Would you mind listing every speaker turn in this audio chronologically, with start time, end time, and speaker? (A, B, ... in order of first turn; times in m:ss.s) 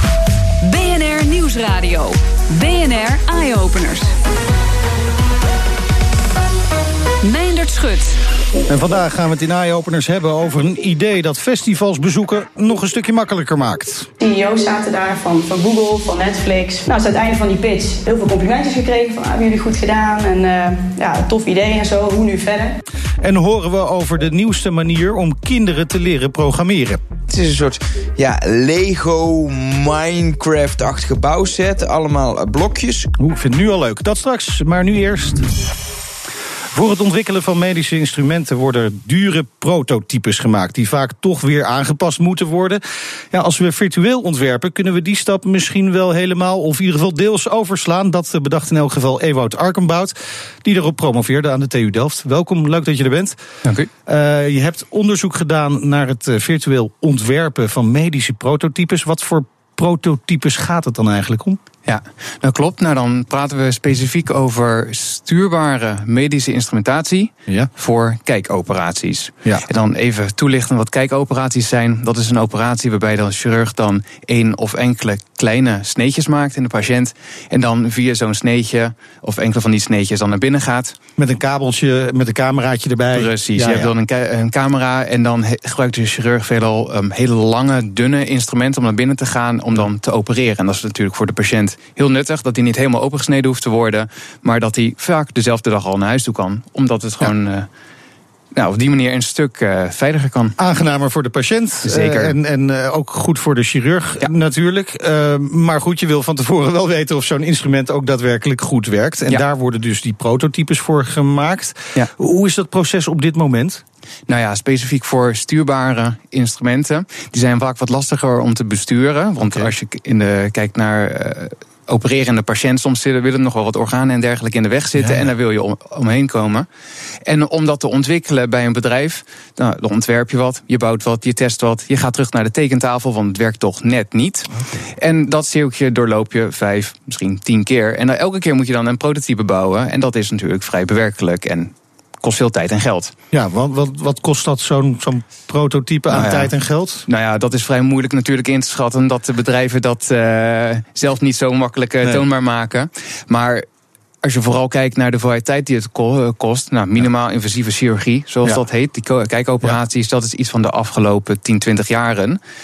0:00.6-0:04.1 A
0:07.2-0:08.2 A
0:08.7-0:14.1 B
0:14.2-0:22.8 C
0:23.2-0:27.0 B
0:27.3-0:33.1 D
0:33.2-0:35.5 B
0:36.7-0:53.4 B
0:53.6-0:53.9 E
0:54.1-1:01.6 B
1:01.8-1:21.0 E
1:21.2-1:23.9 B
1:23.2-1:37.7 E
1:38.6-1:40.6 E
1:40.6-1:53.8 B
1:41.8-1:42.3 E
1:54.3-2:06.7 E
1:59.4-1:59.7 B
2:05.0-2:05.3 B
2:07.2-2:23.1 E
2:14.5-2:14.8 B
2:23.3-2:27.1 B
2:26.1-2:26.5 E
2:27.1-2:33.7 E
2:34.2-2:42.4 E